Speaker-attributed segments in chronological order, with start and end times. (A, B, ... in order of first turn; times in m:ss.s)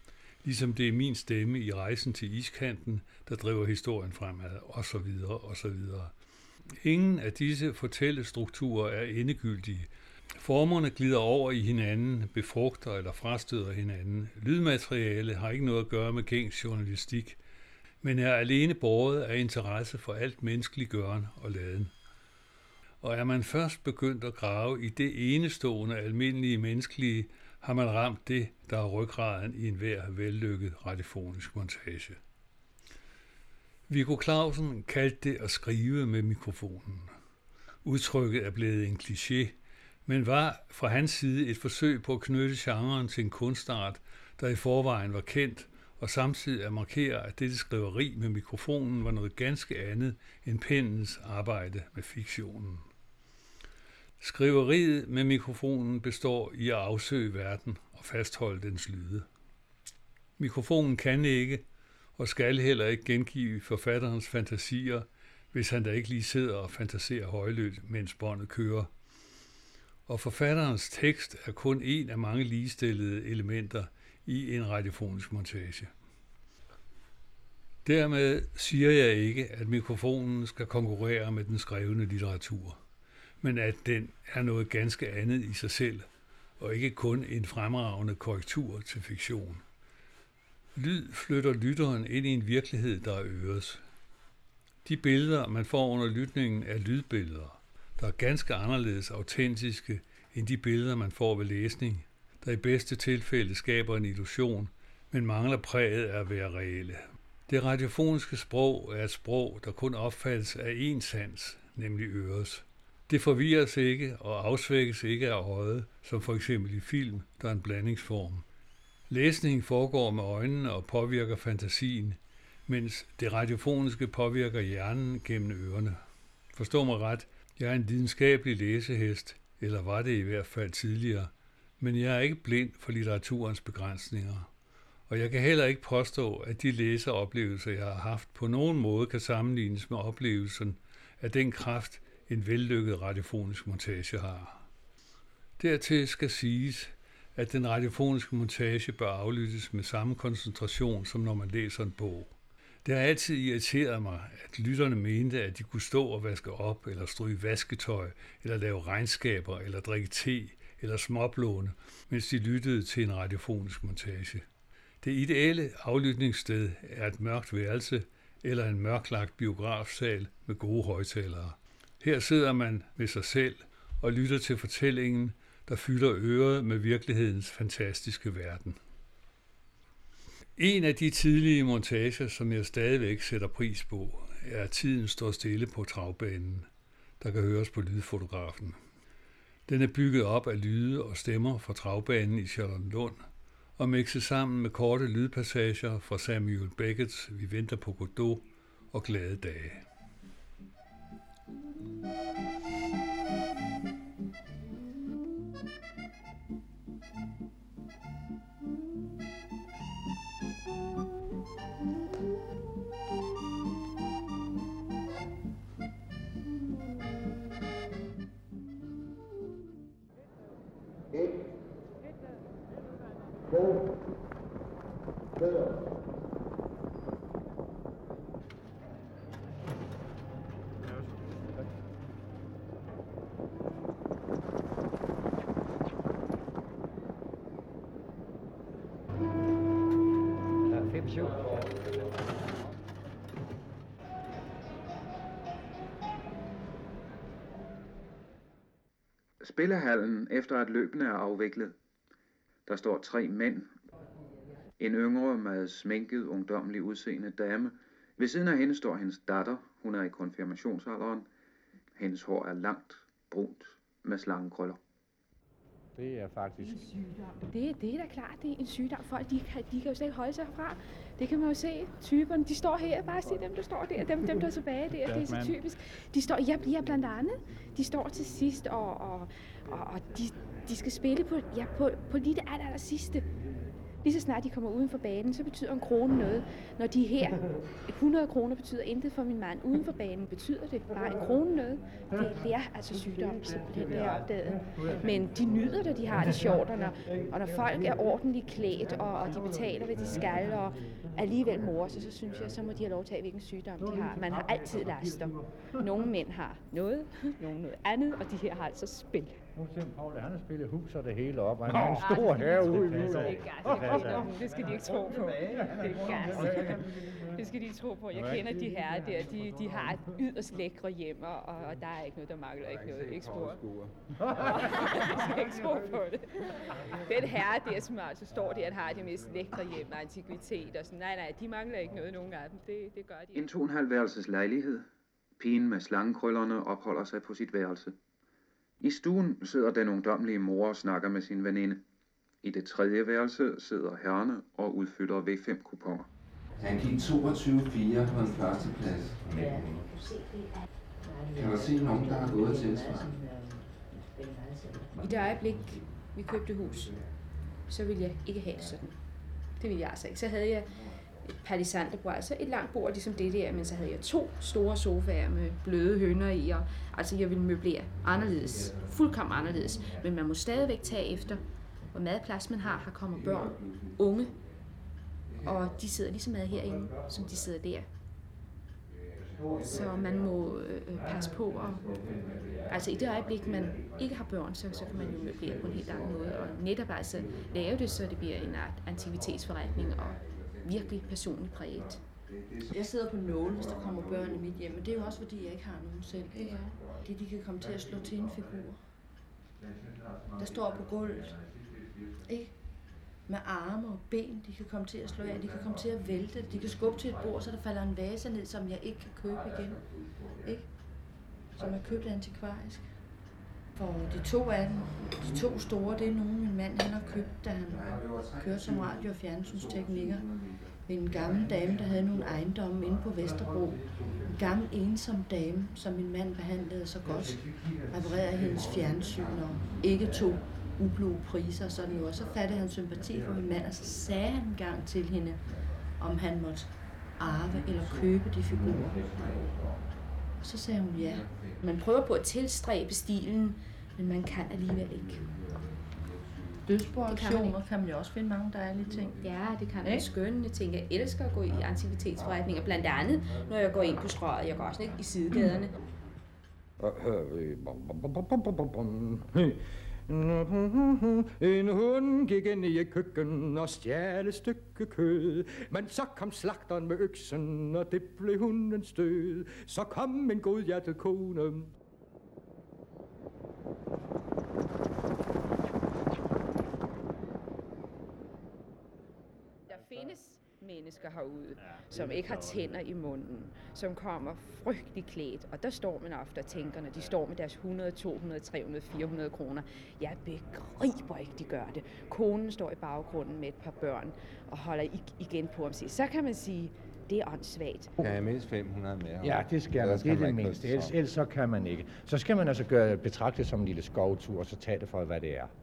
0:00.4-0:06.1 A
0:06.8-0:17.4 A
0:18.0-0:21.9 A
0:23.0-0:32.2 A
0:33.9-0:37.1 A
0:37.8-0:52.8 A
0:54.2-0:59.2 A
1:00.4-1:01.6 A
1:02.2-1:08.9 A
1:10.1-1:15.9 A
1:17.8-1:22.8 A
1:23.4-1:26.1 A
1:26.6-1:29.6 A
1:30.7-1:33.8 A
1:34.8-1:58.4 A
1:59.1-2:06.0 A
2:06.5-2:14.5 A
2:15.1-2:24.6 A
2:25.6-2:32.3 A
2:32.8-2:44.4 A
2:45.0-2:58.8 A
3:00.6-3:06.7 A
3:07.2-3:08.8 A
3:09.7-3:13.2 A
3:13.8-3:19.8 A
4:09.4-4:11.7 B
4:12.6-4:13.8 B
4:14.8-4:21.3 B
4:22.0-4:24.8 B
4:26.0-4:26.8 C
4:27.3-4:43.3 D
4:44.0-5:09.4 D
5:09.5-5:14.3 C
5:12.1-5:23.6 D
5:16.1-5:16.8 C
5:24.4-5:33.4 D
5:33.3-5:34.8 B
5:35.4-5:38.0 B
5:38.8-5:41.8 B
5:42.4-5:46.1 B
5:46.6-5:50.0 E
5:51.1-5:53.2 E
5:55.0-5:57.0 D
5:57.7-5:59.0 D
5:59.5-6:14.4 D
6:15.4-6:17.9 D
6:19.6-6:21.8 D
6:22.7-6:32.0 D
6:32.6-6:38.8 F
6:40.4-6:41.4 F
6:42.2-6:42.5 F
6:43.2-6:50.7 F
6:51.5-6:52.9 F
6:53.7-7:00.3 F
7:00.8-7:15.4 F
7:16.0-7:19.1 F
7:20.4-7:21.3 F
7:21.6-7:25.3 D
7:26.6-7:29.2 F
7:27.0-7:27.6 D
7:29.2-7:35.8 D
7:36.8-7:39.5 G
7:40.1-7:51.6 G
7:59.7-8:17.9 D
8:18.0-8:21.0 H
8:19.2-8:25.5 C